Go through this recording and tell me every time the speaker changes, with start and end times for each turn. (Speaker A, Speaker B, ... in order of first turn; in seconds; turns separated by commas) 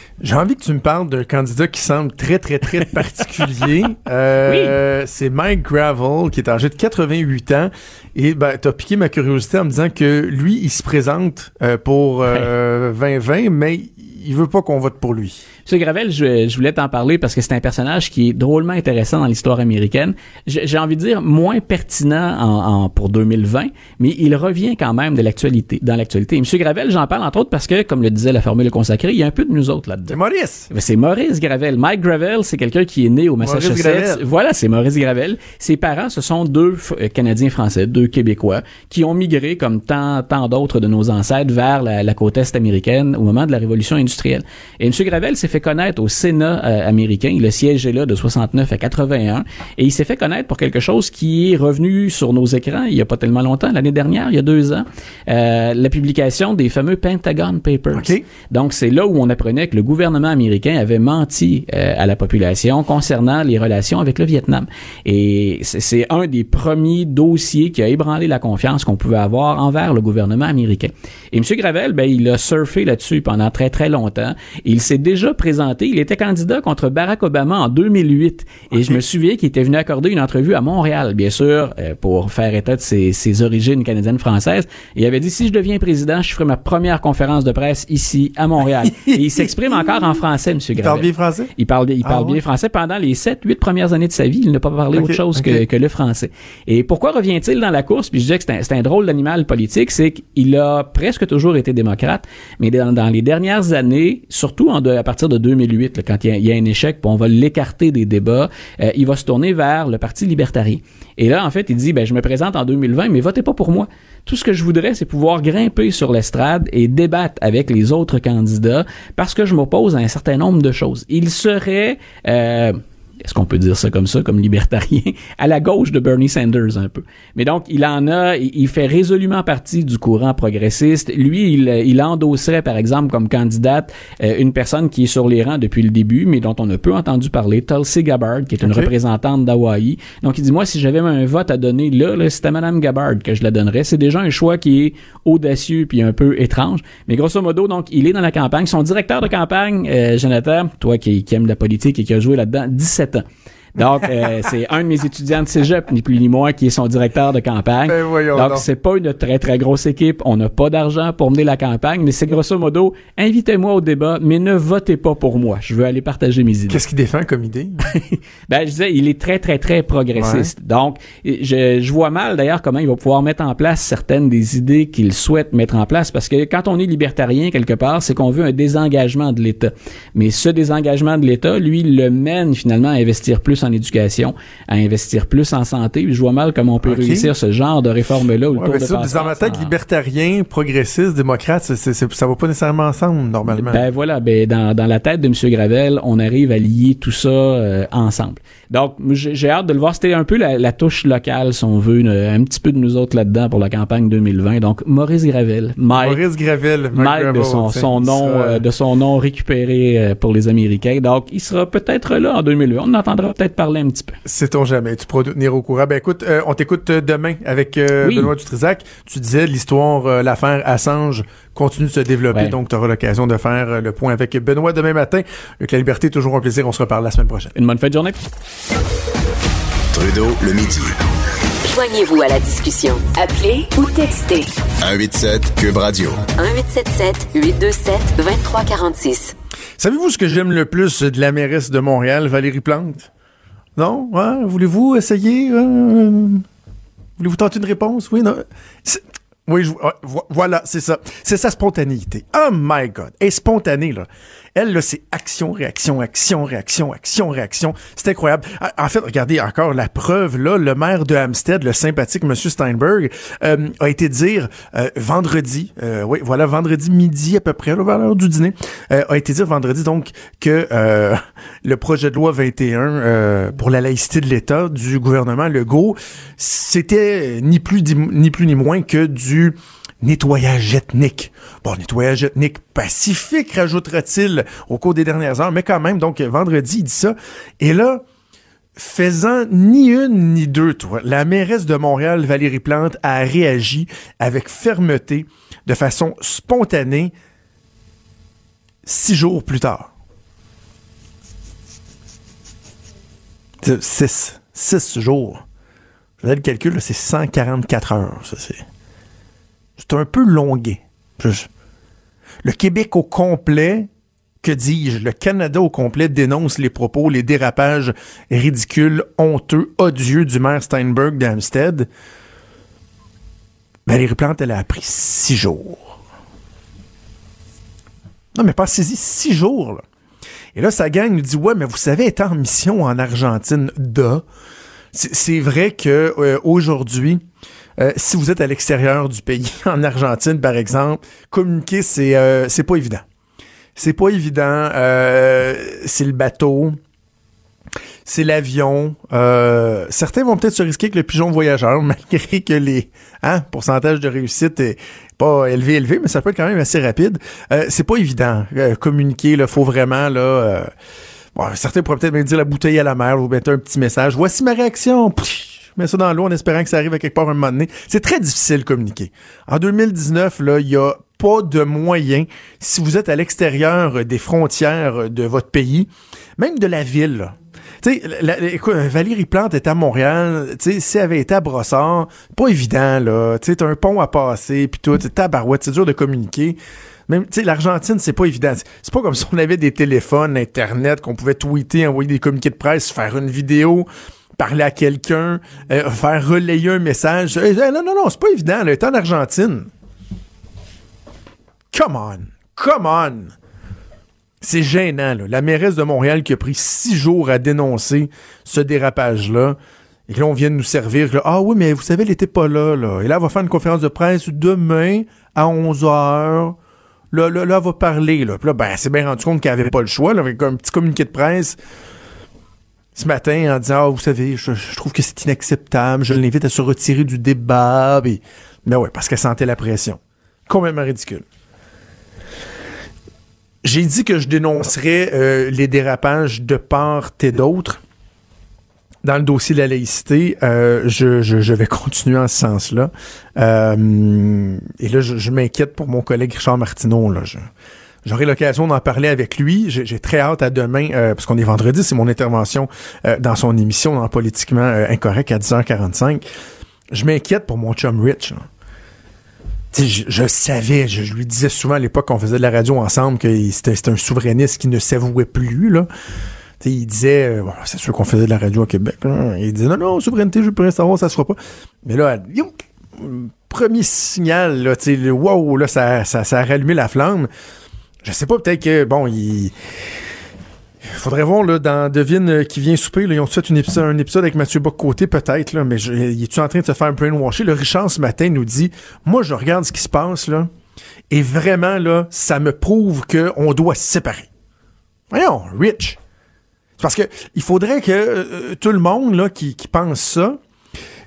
Speaker A: 0.2-15.4, Speaker B: 4.5-4.8, Speaker B: 15.6-30.1, Speaker A: 30.1-30.7, Speaker B: 30.7-153.2, Speaker A: 33.4-34.2, Speaker A: 57.9-58.2, Speaker A: 88.9-90.2, Speaker A: 90.8-91.5, Speaker A: 92.0-92.4, Speaker A: 94.9-95.6, Speaker A: 138.6-138.9, Speaker B: 153.8-166.8, Speaker A: 157.9-158.7, Speaker A: 166.7-167.8, Speaker B: 167.9-189.8, Speaker A: 170.2-170.5, Speaker A: 186.8-187.3, Speaker A: 188.6-193.9, Speaker B: 193.5-206.2, Speaker A: 205.9-208.6, Speaker B: 206.9-214.2, Speaker A: 214.2-227.5, Speaker B: 218.0-218.3, Speaker B: 227.6-228.2, Speaker C: 229.9-230.9, Speaker D: 231.6-234.5, Speaker C: 234.8-236.3, Speaker D: 236.4-239.3, Speaker A: 239.8-243.1, Speaker A: 243.8-246.4, Speaker A: 247.2-288.0, Speaker A: 288.8-297.1, Speaker A: 298.8-299.9, Speaker A: 303.6-305.4, Speaker A: 306.2-308.6, Speaker A: 309.8-311.5, Speaker A: 312.4-313.9, Speaker A: 314.4-321.9, Speaker A: 323.9-325.9, Speaker A: 328.3-329.8, Speaker A: 330.6-334.2, Speaker A: 334.9-337.2, Speaker A: 337.8-343.0, Speaker A: 343.8-346.8, Speaker A: 348.1-360.7, Speaker A: 361.3-399.7, Speaker A: 401.7-403.3, Speaker A: 404.4-409.6, Speaker A: 410.1-416.6, Speaker A: 417.1-421.6, Speaker A: 422.9-431.2, Speaker A: 433.6-437.8, Speaker A: 439.0-447.4, Speaker A: 448.1-456.2, Speaker A: 456.9-458.4, Speaker A: 459.7-465.9, Speaker A: 466.6-477.3, Speaker A: 478.0-479.5, Speaker A: 480.9-490.5, Speaker A: 491.1-494.3, Speaker A: 495.1-496.0, Speaker A: 496.8-500.4